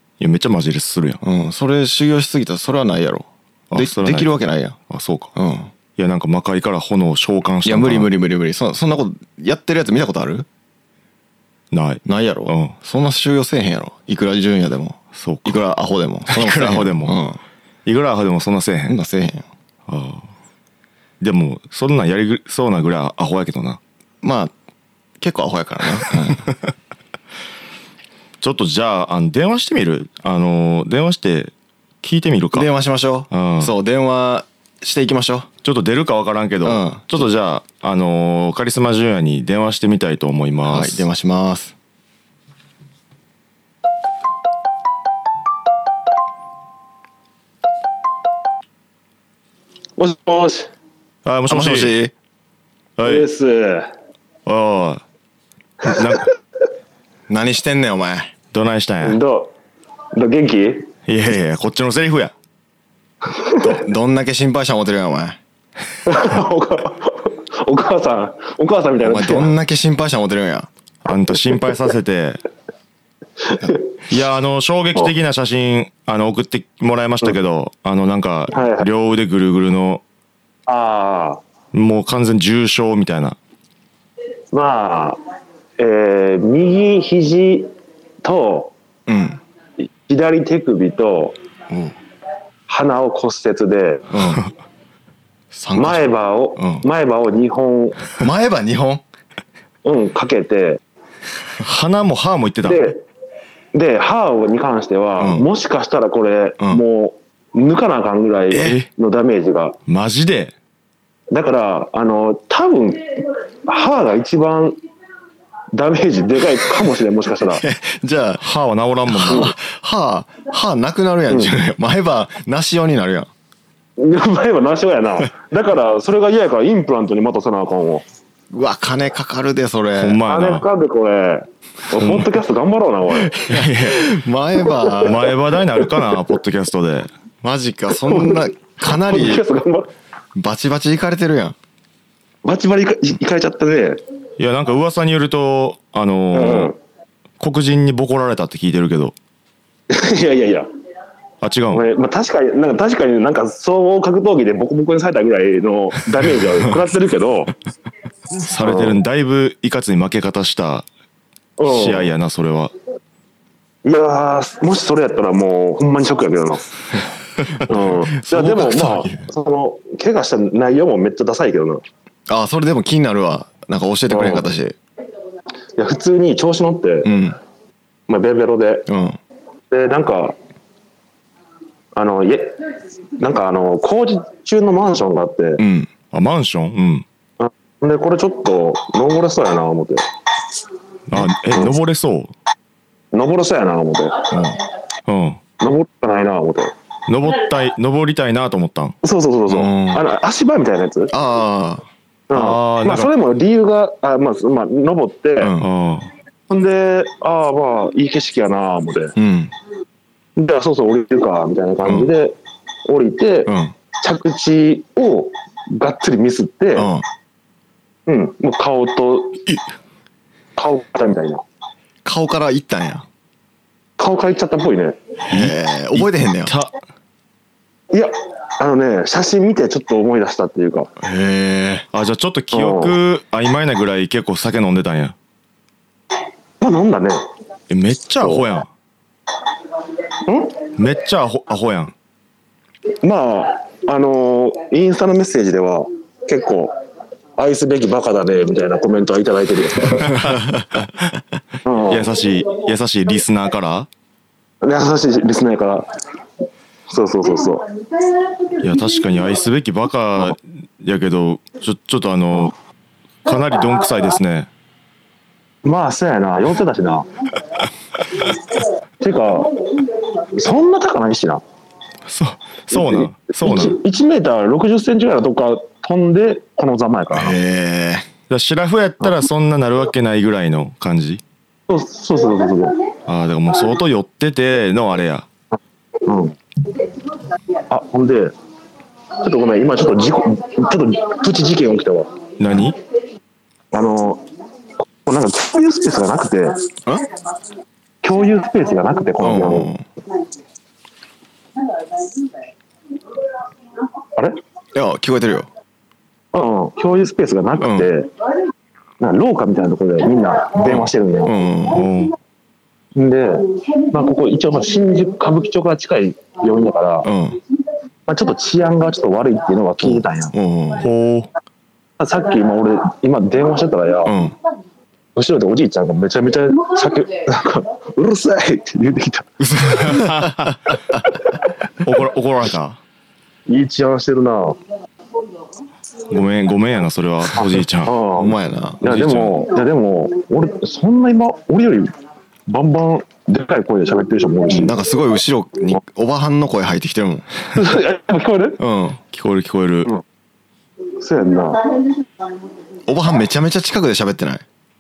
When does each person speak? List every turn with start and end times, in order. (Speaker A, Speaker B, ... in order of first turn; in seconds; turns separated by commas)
Speaker A: 0.2-1.2, Speaker B: 1.2-4.8, Speaker A: 3.7-4.3, Speaker A: 4.9-5.3, Speaker B: 5.3-5.7, Speaker A: 6.0-8.1, Speaker B: 7.6-10.4, Speaker A: 11.7-12.8, Speaker B: 12.0-17.4, Speaker A: 15.1-15.6, Speaker A: 16.3-17.2, Speaker A: 17.8-19.0, Speaker B: 18.9-19.4, Speaker A: 19.9-20.3, Speaker A: 21.2-23.8, Speaker B: 24.2-24.5, Speaker B: 25.2-26.5, Speaker A: 28.4-32.7, Speaker B: 32.5-35.5, Speaker A: 33.3-33.7, Speaker A: 35.6-41.0, Speaker B: 36.6-37.0, Speaker B: 40.7-41.7, Speaker C: 50.0-50.7, Speaker A: 51.2-52.0, Speaker B: 51.5-52.1, Speaker A: 53.0-53.2, Speaker C: 53.0-53.9, Speaker A: 54.5-55.0, Speaker A: 55.8-56.3, Speaker B: 57.3-58.3, Speaker A: 58.5-59.2, Speaker C: 59.0-59.5, Speaker C: 60.1-60.9, Speaker A: 61.0-62.3, Speaker C: 63.3-63.8, Speaker B: 63.6-65.4, Speaker C: 66.0-69.5, Speaker B: 69.0-70.7, Speaker A: 71.0-72.4, Speaker A: 74.1-80.0, Speaker C: 78.5-78.9, Speaker C: 80.7-81.4, Speaker A: 81.7-83.4, Speaker C: 84.5-85.2, Speaker C: 85.8-87.7, Speaker C: 88.2-88.7, Speaker B: 89.1-89.4, Speaker C: 89.8-91.4, Speaker C: 92.7-94.1, Speaker B: 94.1-94.4, Speaker B: 95.5-96.0, Speaker C: 95.8-98.1, Speaker B: 96.6-96.8, Speaker B: 98.2-99.0, Speaker C: 99.8-100.8, Speaker A: 101.6-102.9, Speaker C: 102.6-103.0, Speaker C: 103.7-109.8, Speaker B: 105.2-105.5, Speaker A: 108.5-108.9, Speaker A: 109.9-110.5, Speaker C: 111.3-114.8, Speaker C: 115.7-117.6, Speaker B: 117.4-118.4, Speaker A: 118.4-119.5, Speaker B: 119.1-123.3, Speaker C: 124.0-128.0, Speaker B: 128.5-130.2, Speaker A: 129.9-130.7, Speaker C: 130.3-133.3, Speaker A: 131.9-132.3, Speaker B: 133.3-135.3, Speaker A: 133.4-134.0, Speaker C: 134.7-135.1, Speaker A: 135.0-137.1, Speaker B: 137.4-139.4, Speaker C: 138.0-139.9, Speaker B: 140.3-141.6, Speaker C: 142.4-144.0, Speaker A: 144.4-146.7, Speaker C: 146.3-146.8, Speaker A: 147.4-149.1, Speaker C: 149.9-150.7, Speaker A: 151.4-151.8, Speaker C: 151.7-157.5, Speaker A: 158.4-160.9, Speaker C: 158.6-159.0, Speaker C: 161.6-162.1, Speaker A: 161.6-162.7, Speaker C: 163.8-166.7, Speaker B: 167.5-169.3, Speaker C: 167.7-171.8, Speaker B: 172.3-174.8, Speaker C: 174.1-174.5, Speaker C: 175.8-177.1, Speaker B: 177.0-177.4, Speaker C: 178.1-178.8, Speaker B: 178.9-179.2, Speaker C: 179.7-180.3, Speaker C: 181.9-182.6, Speaker C: 183.2-185.6, Speaker B: 185.6-185.9, Speaker A: 186.1-187.0, Speaker C: 187.4-190.0, Speaker A: 191.1-192.3, Speaker C: 193.1-194.3, Speaker B: 194.3-194.6, Speaker A: 195.1-195.4, Speaker C: 195.6-196.7, Speaker A: 197.1-198.9, Speaker C: 199.0-201.1, Speaker B: 199.5-200.0, Speaker B: 201.1-201.8, Speaker C: 202.3-205.5, Speaker A: 202.3-203.1, Speaker B: 205.4-205.7, Speaker A: 205.6-206.1, Speaker C: 206.5-209.1, Speaker B: 209.2-209.5, Speaker C: 210.3-212.3, Speaker B: 211.8-212.1, Speaker C: 212.8-216.9, Speaker B: 213.5-213.7, Speaker B: 216.8-217.0, Speaker C: 218.1-219.4, Speaker C: 220.6-221.4, Speaker B: 222.0-223.1, Speaker C: 224.0-225.0, Speaker B: 225.3-226.5, Speaker A: 225.3-226.7, Speaker C: 227.9-230.9, Speaker B: 231.0-231.9, Speaker A: 231.9-235.2, Speaker C: 232.5-233.0, Speaker C: 236.6-237.2, Speaker A: 237.7-238.7, Speaker C: 240.2-240.6, Speaker A: 240.8-241.9, Speaker C: 243.0-246.7, Speaker C: 247.4-250.1, Speaker A: 250.1-250.6, Speaker B: 250.2-250.6, Speaker C: 251.6-252.1, Speaker A: 251.9-253.9, Speaker C: 254.6-255.9, Speaker C: 256.9-257.7, Speaker A: 258.6-262.5, Speaker A: 263.2-264.5, Speaker C: 265.6-267.1, Speaker C: 269.0-269.5, Speaker C: 270.3-271.4, Speaker A: 272.1-273.8, Speaker C: 272.7-277.4, Speaker B: 277.1-278.1, Speaker A: 278.3-281.2, Speaker C: 281.7-282.8, Speaker A: 283.1-285.3, Speaker C: 286.0-286.4, Speaker C: 287.7-288.3, Speaker C: 289.2-292.1, Speaker A: 292.4-292.8, Speaker C: 293.7-294.2, Speaker C: 295.0-296.6, Speaker C: 298.0-299.7, Speaker B: 299.2-299.8, Speaker B: 304.7-305.5, Speaker C: 306.3-308.1, Speaker B: 307.6-307.9, Speaker C: 309.0-311.3, Speaker B: 310.6-311.8, Speaker A: 311.7-312.1, Speaker C: 312.9-317.1, Speaker B: 317.0-317.4, Speaker C: 318.1-320.3, Speaker B: 319.8-320.9, Speaker A: 320.8-321.3, Speaker C: 322.0-324.1, Speaker B: 324.1-324.3, Speaker C: 325.1-329.3, Speaker B: 329.4-330.9, Speaker A: 329.6-330.8, Speaker A: 331.8-332.8, Speaker C: 333.5-334.6, Speaker A: 336.1-337.9, Speaker C: 337.8-341.9, Speaker B: 338.1-338.8, Speaker A: 338.8-339.4, Speaker C: 342.5-344.7, Speaker B: 344.6-347.3, Speaker C: 347.5-348.6, Speaker B: 348.6-349.0, Speaker A: 349.1-349.9, Speaker C: 351.0-351.7, Speaker B: 352.9-354.4